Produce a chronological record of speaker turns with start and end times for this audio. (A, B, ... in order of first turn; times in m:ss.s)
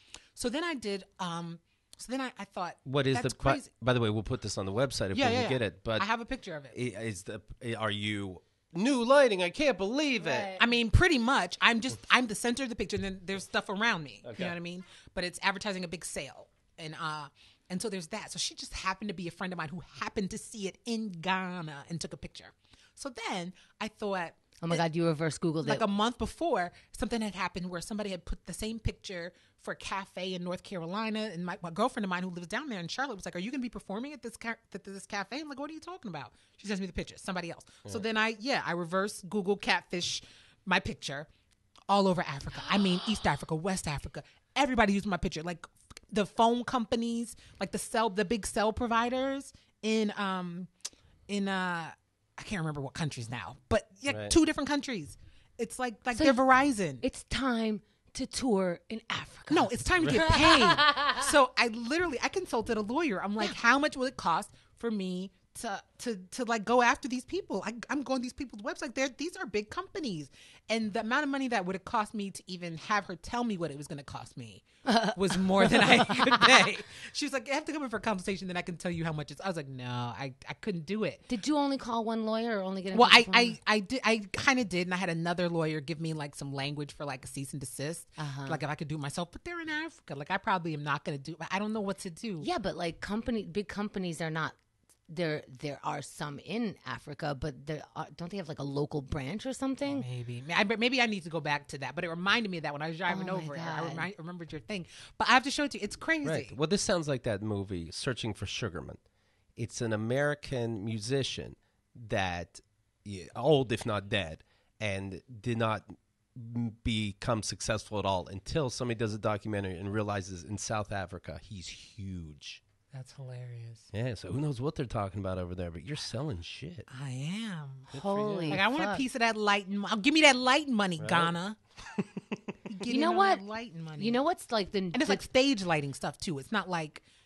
0:00.4-0:03.7 A
0:02.8-0:06.0 B
0:05.1-0:06.8 A
0:06.7-0:10.5 B
0:10.2-0:10.7 C
0:10.6-0:24.8 A
0:14.2-0:14.5 B
0:24.6-0:25.8 C
0:25.6-0:41.3 A
0:41.9-0:50.7 A
0:51.3-0:57.0 A
0:54.1-0:54.4 B
0:57.0-1:01.2 C
0:59.5-1:21.2 A
1:00.0-1:00.3 B
1:14.8-1:16.6 C
1:21.3-1:23.6 C
1:22.9-1:32.5 A
1:28.2-1:28.6 C
1:32.4-1:34.6 C
1:35.1-1:40.0 C
1:39.8-1:46.5 A
1:43.1-1:44.1 C
1:46.2-1:49.0 B
1:49.6-2:02.6 B
2:02.9-2:03.9 A
2:03.9-2:06.9 B
2:06.9-2:11.6 A
2:07.9-2:08.6 B
2:07.9-2:09.0 C
2:11.0-2:11.4 B
2:11.9-2:12.5 B
2:12.7-2:14.2 A
2:12.9-2:13.4 C
2:14.0-2:15.2 C
2:14.9-2:17.0 A